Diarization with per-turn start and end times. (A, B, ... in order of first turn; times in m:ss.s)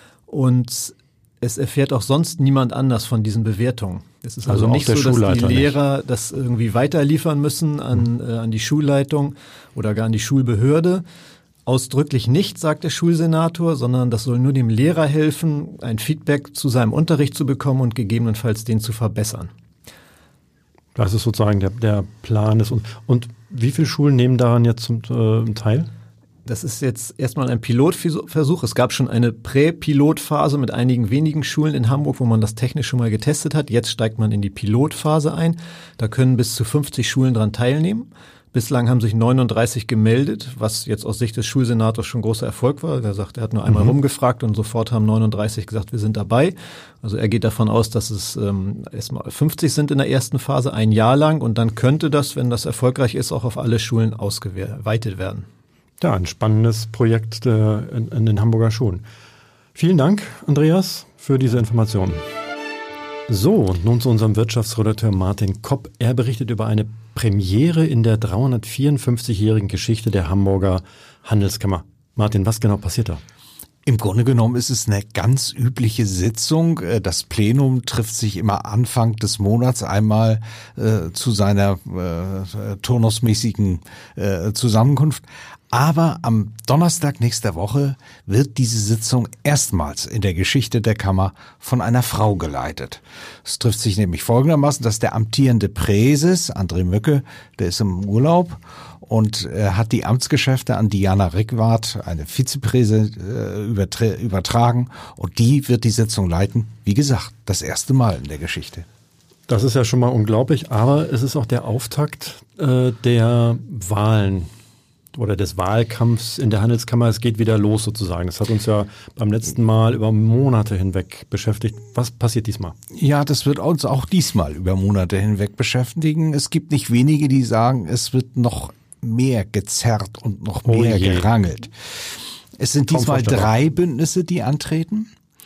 0:00.3-0:11.0 A
0:04.5-0:05.8 B
0:11.6-0:19.5 A
0:21.0-0:25.9 B
0:26.4-0:55.4 A
0:56.0-0:59.0 B
0:59.7-1:02.2 B
1:03.3-1:13.2 B
1:13.8-1:48.8 C
1:49.5-1:54.5 B
1:55.1-2:02.7 B
2:02.9-2:11.7 C
2:10.6-2:11.3 B
2:12.6-2:15.1 C
2:12.9-2:13.5 B